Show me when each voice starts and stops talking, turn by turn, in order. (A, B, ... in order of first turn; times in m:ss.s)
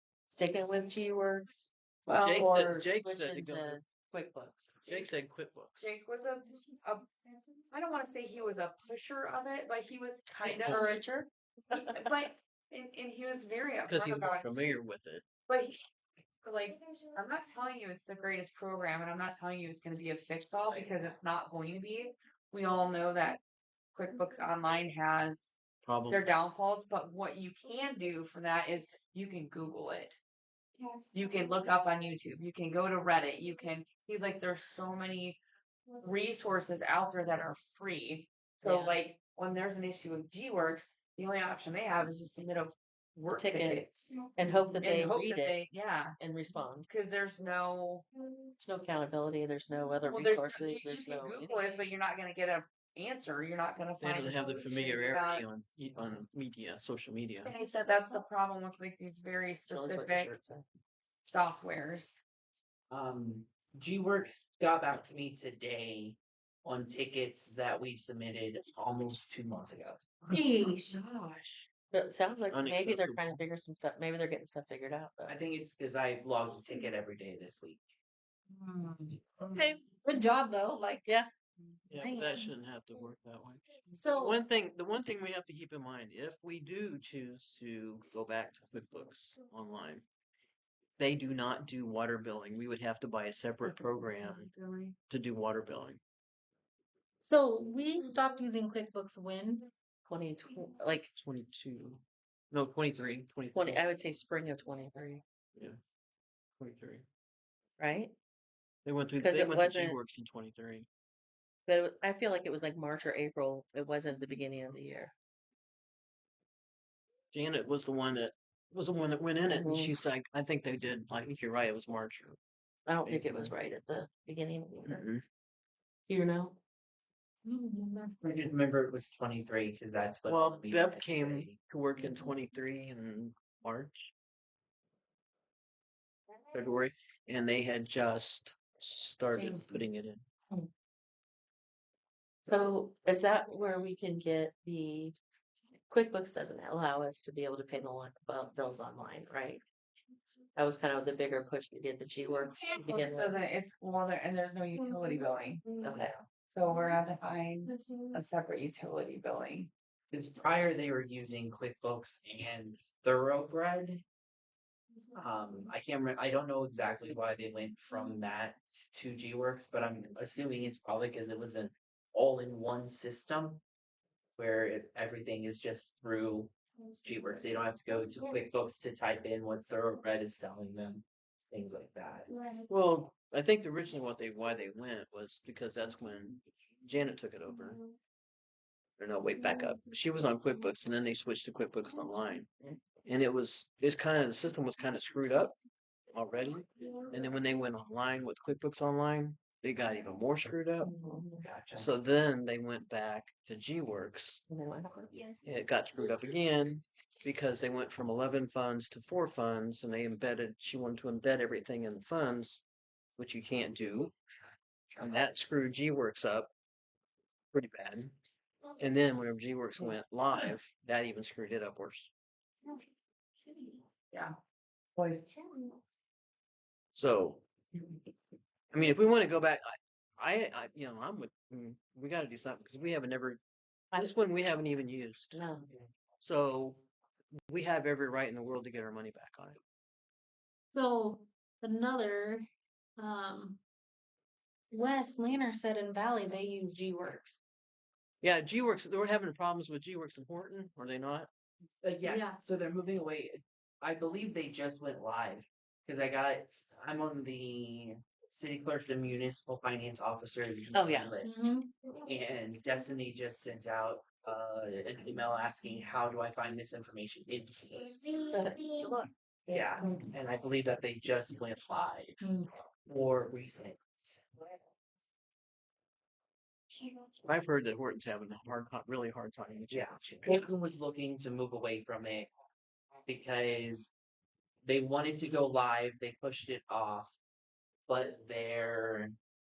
0:00.3-0:01.7 A
0:02.1-0:02.5 B
0:02.2-0:03.8 C
0:02.3-0:04.9 A
0:04.9-0:05.9 C
0:05.8-0:07.1 B
0:07.7-0:11.0 B
0:10.4-0:12.0 A
0:11.7-0:14.8 B
0:13.9-0:15.2 C
0:15.5-0:15.8 B
0:16.4-0:23.4 B
0:24.0-0:25.6 B
0:25.8-0:26.3 C
0:26.1-0:30.2 B
0:31.0-0:35.4 B
0:36.0-0:44.0 B
0:38.6-0:39.0 A
0:43.3-0:45.6 A
0:44.7-0:46.2 B
0:46.2-0:46.9 A
0:46.9-0:48.1 B
0:48.6-0:51.6 A
0:50.1-0:55.4 B
0:54.0-0:57.5 C
0:57.4-1:00.4 B
0:59.7-1:00.6 A
1:01.2-1:02.2 B
1:02.9-1:11.7 D
1:10.3-1:11.0 E
1:11.9-1:15.4 A
1:12.5-1:13.4 C
1:15.3-1:17.9 D
1:18.6-1:21.0 E
1:19.6-1:19.8 A
1:21.9-1:30.0 C
1:22.0-1:22.5 E
1:24.0-1:24.4 E
1:31.0-1:34.5 C
1:33.6-1:34.9 B
1:35.1-1:36.0 C
1:37.2-1:39.7 E
1:40.1-1:41.1 A
1:41.2-1:43.8 C
1:43.5-1:45.2 A
1:46.6-1:47.0 C
1:47.8-1:48.1 A
1:48.8-1:50.9 C
1:49.2-1:50.0 A
1:51.7-1:55.1 A
1:57.3-2:02.4 C
1:59.4-2:00.0 A
2:02.9-2:05.0 A
2:03.0-2:03.5 C
2:04.8-2:05.2 C
2:06.1-2:06.6 A
2:07.5-2:08.2 E
2:08.2-2:11.6 D
2:10.3-2:14.1 C
2:12.0-2:12.3 A
2:16.5-2:20.2 C
2:19.4-2:19.7 B
2:22.4-2:25.2 A
2:25.9-2:29.6 A
2:30.6-2:33.4 A
2:32.7-2:35.6 B
2:35.8-2:36.2 A
2:36.4-2:39.7 B
2:37.7-2:38.1 E
2:40.1-2:44.0 D
2:45.1-2:53.6 D
2:54.4-3:02.6 D
3:02.7-3:07.8 C
3:09.0-3:12.5 C
3:13.1-3:15.6 C
3:16.1-3:20.9 C
3:20.8-3:21.4 A
3:21.4-3:21.9 D
3:21.7-3:24.4 C
3:24.5-3:25.1 A
3:25.4-3:32.6 C
3:33.2-3:34.1 C
3:35.0-3:36.5 C
3:37.5-3:38.2 C
3:38.8-3:42.1 C
3:43.5-3:44.4 B
3:45.0-3:45.8 B
3:46.9-3:47.4 C
3:48.7-3:53.4 C
3:54.0-3:55.4 C
3:55.3-3:55.7 A
3:56.2-3:56.8 C
3:57.5-3:59.6 C
4:00.7-4:02.5 E
4:03.0-4:03.6 E
4:04.7-4:07.4 E
4:08.2-4:11.3 C
4:11.8-4:28.3 D
4:12.0-4:12.4 E
4:20.7-4:21.1 A
4:21.2-4:21.7 E
4:28.2-4:28.7 A
4:29.5-4:32.3 D
4:32.2-4:32.5 E
4:32.9-4:34.6 D
4:37.2-4:40.3 C
4:39.7-4:42.3 D
4:43.1-4:43.9 D
4:44.6-4:47.2 D
4:47.9-4:49.1 D